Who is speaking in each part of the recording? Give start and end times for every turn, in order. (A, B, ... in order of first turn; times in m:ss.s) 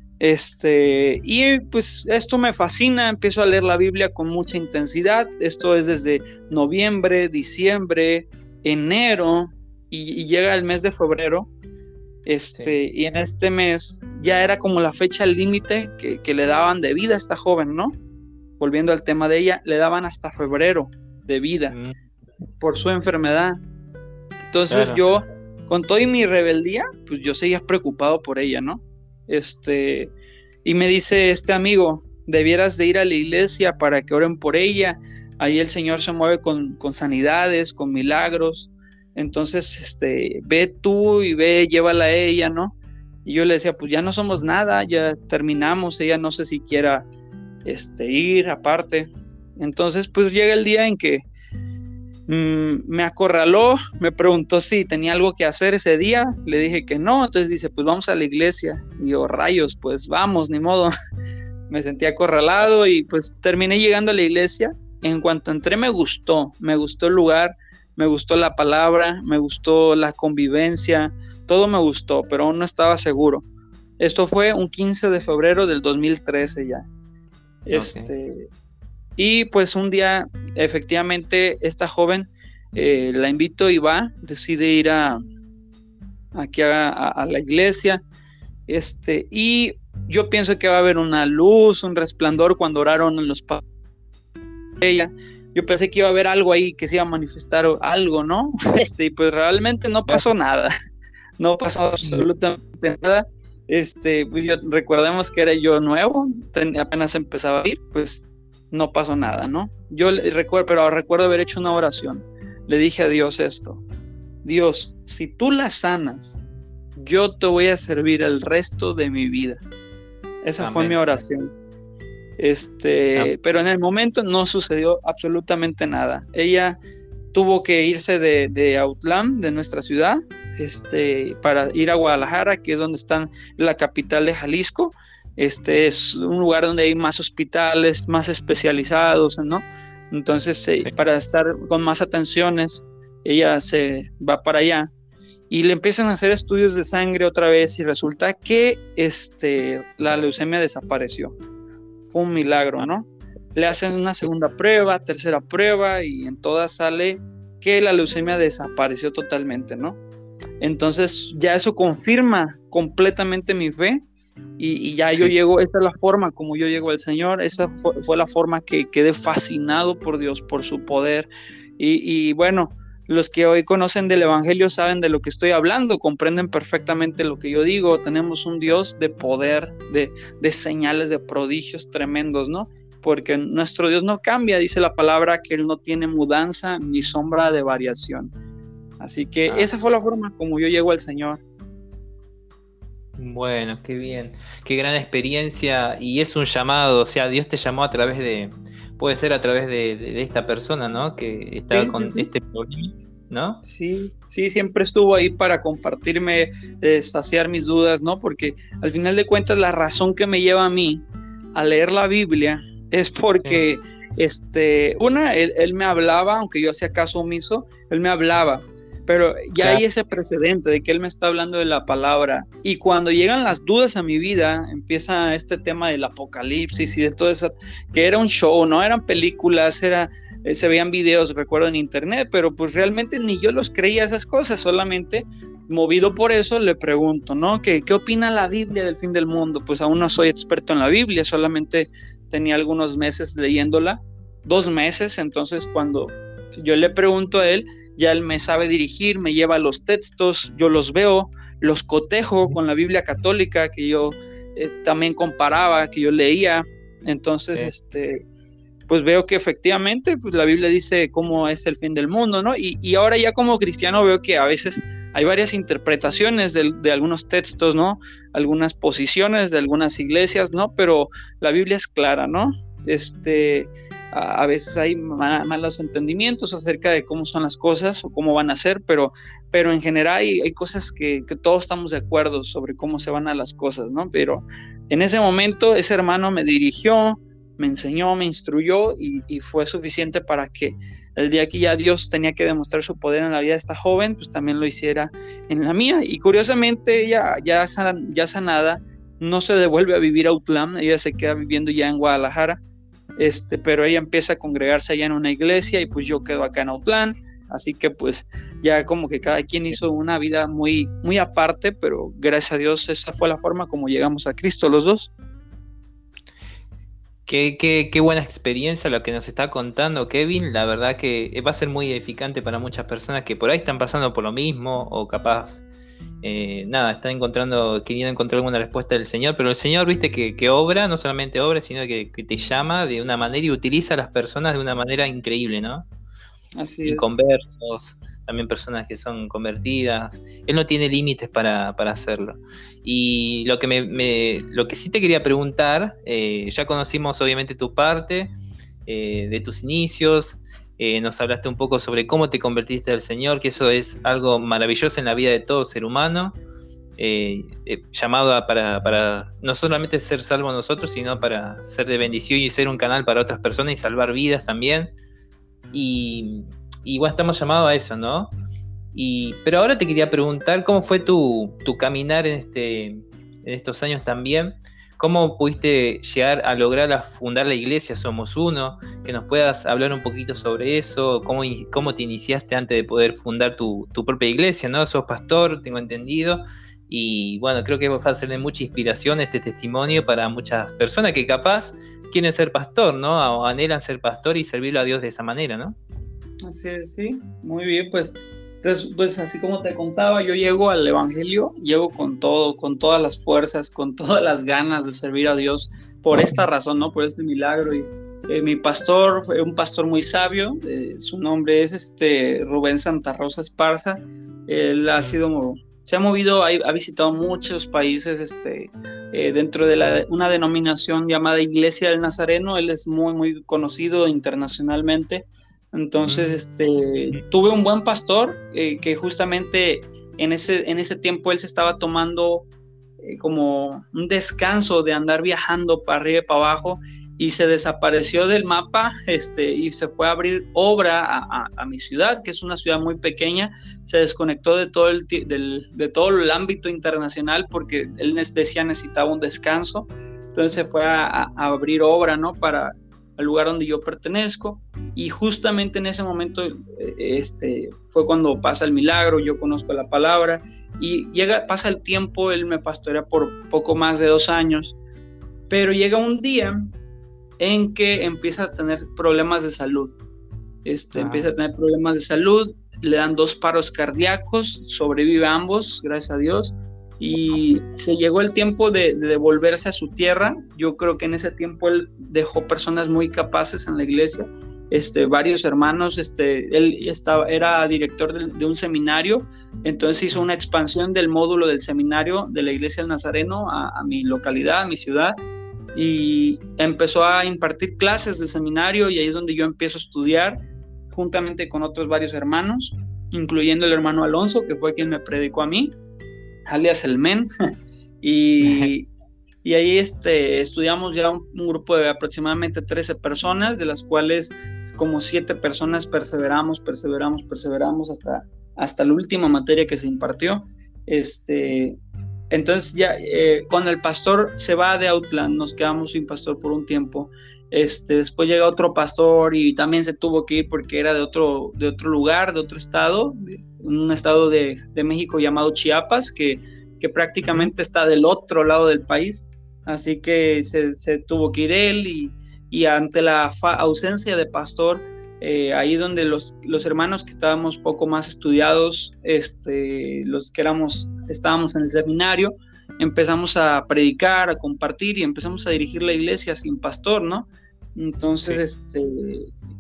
0:00.2-0:11.5 A
0:12.2-0:18.0 A
0:18.6-0:21.8 A
0:21.7-0:22.0 B
0:22.6-0:23.6 A
0:24.5-0:30.1 A
0:24.7-0:25.0 B
0:30.6-0:47.1 A
0:47.6-0:51.2 A
0:52.3-1:00.9 A
1:01.7-1:13.4 A
1:14.0-1:16.8 A
1:17.6-1:18.5 A
1:17.7-1:18.1 B
1:19.2-1:25.2 A
1:26.3-1:28.0 A
1:28.7-1:33.6 A
1:34.8-1:40.7 A
1:41.4-1:53.8 A
1:54.4-1:56.4 A
1:57.0-1:59.6 A
2:00.4-2:01.5 A
2:00.6-2:01.0 B
2:02.4-2:06.8 A
2:07.3-2:24.9 A
2:20.8-2:21.0 B
2:25.5-2:31.4 A
2:32.1-2:40.0 A
2:40.6-2:44.0 A
2:44.6-2:51.3 A
2:51.8-3:08.3 A
3:09.0-3:11.4 A
3:13.2-3:23.6 B
3:21.7-3:22.3 A
3:23.6-4:18.2 A
4:18.9-5:02.6 A
5:03.2-5:15.1 A
5:17.2-5:25.6 B
5:26.2-5:35.8 B
5:36.6-5:37.1 A
5:36.8-5:48.3 B
5:48.8-5:56.4 B
5:57.0-6:04.9 B
6:05.7-6:08.3 B
6:08.9-6:35.8 B
6:36.4-7:12.5 A
7:06.0-7:06.4 B
7:13.0-7:44.8 A
7:45.5-7:46.7 A
7:47.4-7:49.9 A
7:50.6-8:15.1 A
7:50.9-7:51.3 B
8:15.7-8:20.4 A
8:20.9-8:25.8 A
8:26.5-8:27.3 A
8:28.0-8:28.9 A
8:28.4-8:28.7 B
8:29.4-8:41.8 A
8:42.3-9:19.3 A
8:57.2-8:57.5 B